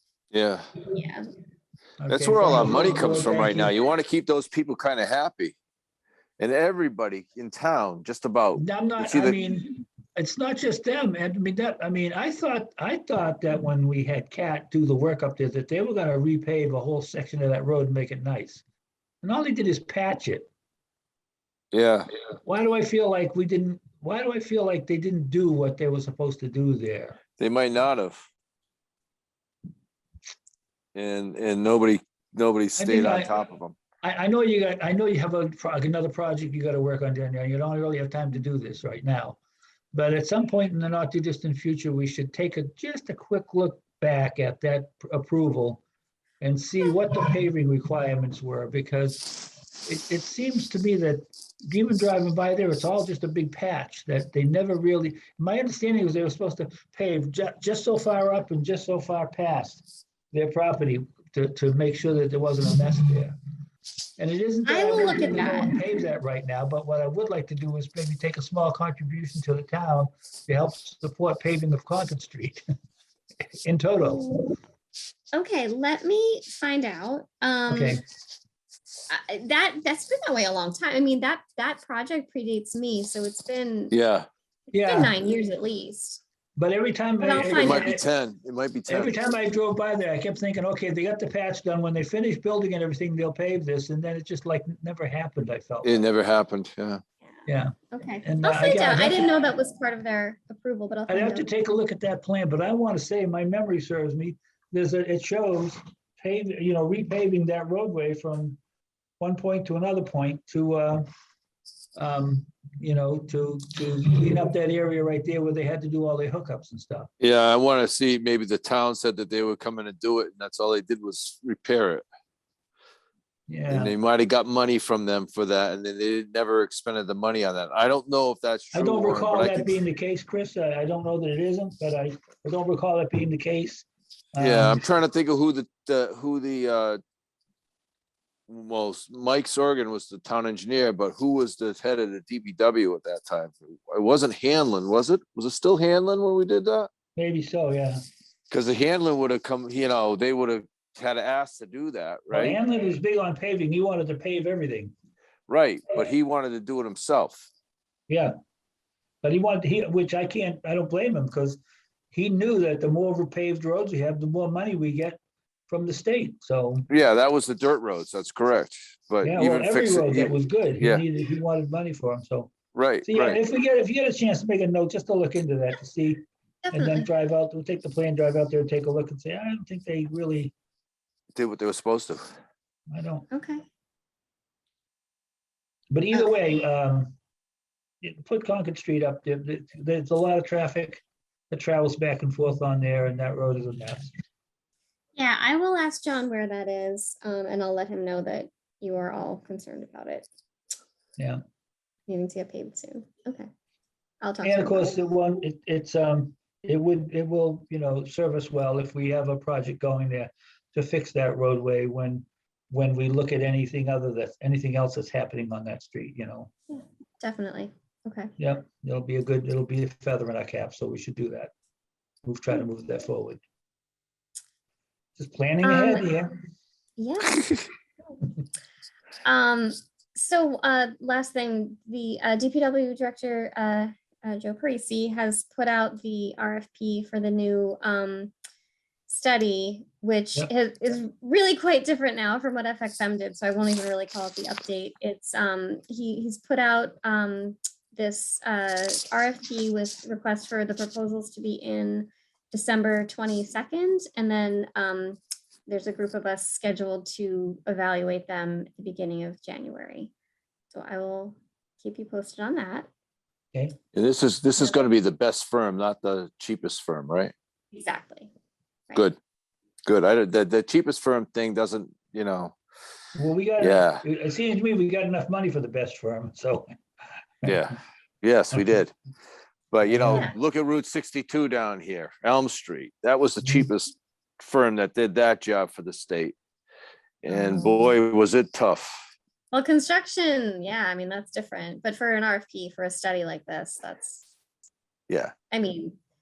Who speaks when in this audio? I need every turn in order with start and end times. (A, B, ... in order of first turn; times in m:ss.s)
0:00.3-0:00.7 A
0:00.9-0:01.3 B
0:02.0-0:03.8 C
0:02.1-0:05.6 A
0:06.4-0:09.4 A
0:08.6-0:18.6 C
0:19.2-0:20.5 C
0:21.7-0:22.1 A
0:22.4-0:27.2 C
0:27.4-0:28.3 A
0:31.0-0:33.8 A
0:32.8-0:33.3 C
0:34.0-0:39.4 C
0:39.9-0:45.8 C
0:46.4-0:49.3 C
0:49.8-1:03.4 C
1:04.2-1:12.6 C
1:04.6-1:05.8 B
1:13.6-1:14.3 C
1:14.0-1:14.3 B
1:15.3-1:18.0 B
1:17.7-1:18.0 C
1:19.1-1:24.0 B
1:23.9-1:24.3 A
1:24.7-1:26.2 B
1:24.7-1:25.2 C
1:26.6-1:28.0 C
1:27.2-1:28.0 B
1:27.5-1:29.2 A
1:28.9-1:36.0 C
1:35.8-1:37.0 A
1:37.5-1:39.3 C
1:37.9-1:41.5 B
1:41.1-1:48.6 C
1:49.2-1:51.1 C
1:52.0-1:57.1 C
1:57.2-2:02.0 A
2:03.5-2:04.0 C
2:03.7-2:09.7 A
2:08.7-2:14.8 C
2:14.4-2:17.0 A
2:18.5-2:26.9 A
2:27.2-2:28.0 C
2:28.5-2:32.6 A
2:32.3-2:34.9 C
2:35.5-2:37.5 A
2:38.1-2:38.3 C
2:39.2-2:41.6 C
2:42.1-2:46.9 C
2:46.9-2:51.0 A
2:49.2-2:52.5 C
2:52.7-2:53.4 A
2:53.0-2:56.2 C
2:56.6-2:57.1 B
2:56.7-3:00.5 C
3:01.3-3:02.3 A
3:02.9-3:03.3 C
3:03.3-3:03.6 B
3:05.9-3:07.2 C
3:08.0-3:14.1 C
3:15.2-3:20.3 B
3:22.1-3:23.5 B
3:24.2-3:25.0 B
3:24.4-3:36.5 C
3:36.7-3:38.3 B
3:38.4-3:41.5 C
3:42.2-3:43.4 C
3:45.2-3:46.3 C
3:45.6-3:46.1 B
3:47.0-3:47.6 B
3:49.2-3:58.3 B
3:59.1-4:20.1 B
4:20.7-4:22.9 B
4:23.9-4:27.3 A
4:24.6-4:24.9 B
4:27.7-4:28.3 B
4:29.9-4:32.6 A
4:33.1-4:36.7 C
4:33.6-4:34.0 A
4:37.4-4:38.9 A
4:39.7-4:46.4 A
4:39.9-4:40.3 C
4:40.1-4:40.3 B
4:47.2-4:49.0 A
4:47.3-4:47.9 C
4:49.5-4:54.3 B
4:55.5-4:56.0 B